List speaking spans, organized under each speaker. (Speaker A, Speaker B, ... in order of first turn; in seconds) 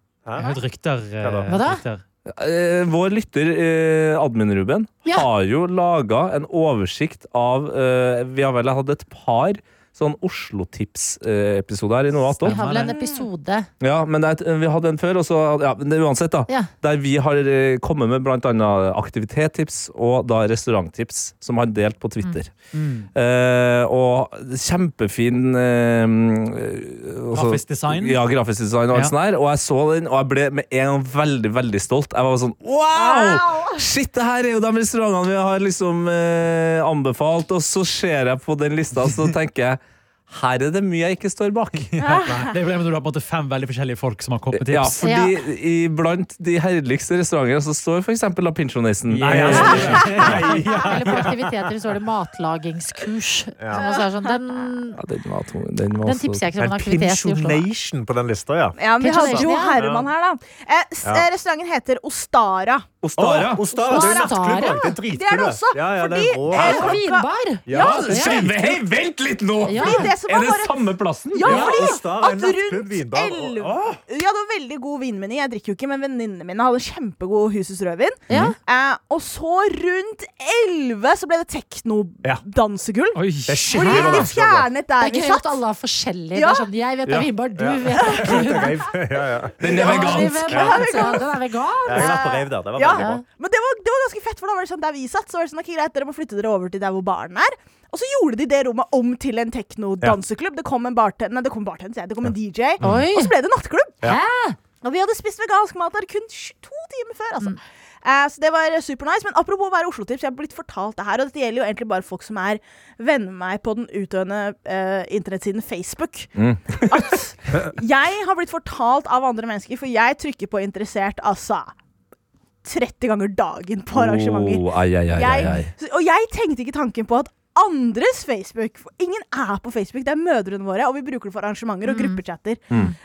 Speaker A: 0.2-0.6, 1.2-1.5, 49.2-51.3, 53.6-53.9, 56.6-60.1, 63.1-67.0, 67.7-68.8, 71.4-73.8, 83.5-84.7, 87.6-89.8, 90.5-90.8, 91.9-93.2
Speaker B: 0.4-2.0, 12.4-12.9, 22.7-23.1, 27.3-28.2, 41.9-45.0, 49.1-51.2, 83.2-83.7
Speaker C: 1.5-1.8, 12.4-13.7, 45.0-45.4, 49.4-55.0, 56.0-57.7, 59.0-59.8, 63.9-65.0, 66.5-68.4, 69.7-70.1, 78.3-78.6, 83.8-84.3, 85.0-88.9, 89.7-92.2, 92.9-93.2, 102.8-103.3, 104.0-104.6, 131.8-132.2
Speaker D: 2.3-12.8, 13.8-22.6, 23.1-41.9, 44.5-50.4, 55.0-56.5, 63.0-63.7, 67.7-71.9, 78.3-78.5, 89.6-90.7, 116.4-117.0, 123.9-125.7
Speaker E: 12.8-13.3, 32.9-33.9, 42.0-42.5, 50.0-50.3, 53.8-54.3, 58.8-62.9, 63.7-68.5, 69.7-85.6, 86.3-86.7, 88.0-88.7, 89.7-91.4, 91.9-104.0, 104.8-121.7, 122.6-132.8